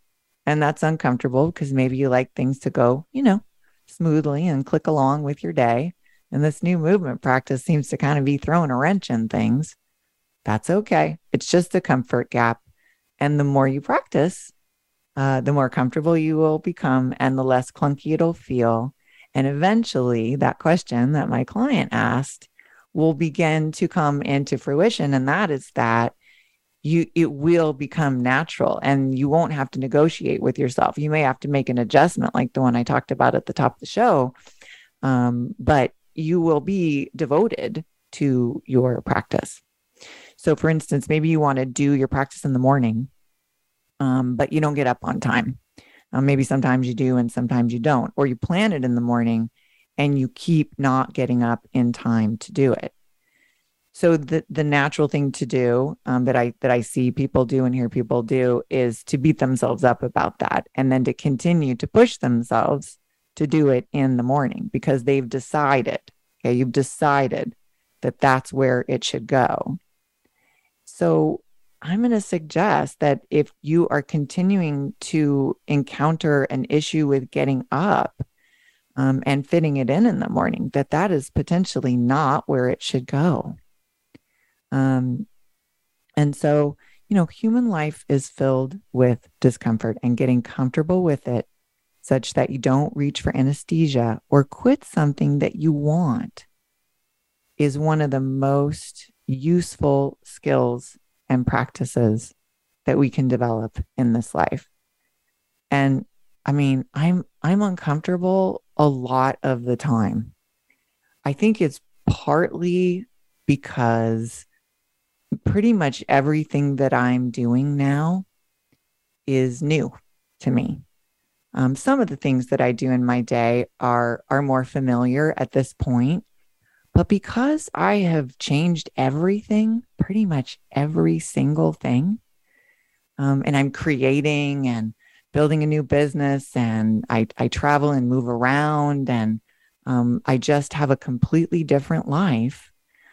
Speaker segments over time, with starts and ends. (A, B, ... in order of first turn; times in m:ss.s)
0:00.5-0:09.8 A
0:10.4-0:12.6 A
0:13.2-0:14.5 A
0:15.2-0:26.2 A
0:26.8-0:34.3 A
0:35.0-0:39.6 A
0:40.4-0:43.1 A
0:44.0-0:45.6 A
0:46.1-0:52.9 A
0:53.9-1:09.8 A
1:10.9-1:18.2 A
1:19.0-1:23.6 A
1:24.7-1:25.3 A
1:26.2-1:31.5 A
1:32.0-1:36.4 A
1:37.6-1:42.3 A
1:42.9-1:44.7 A
1:45.7-1:50.3 A
1:51.2-1:54.5 A
1:55.4-1:58.3 A
1:59.3-2:00.8 A
2:01.6-2:06.2 A
2:06.9-2:12.2 A
2:13.2-2:22.7 A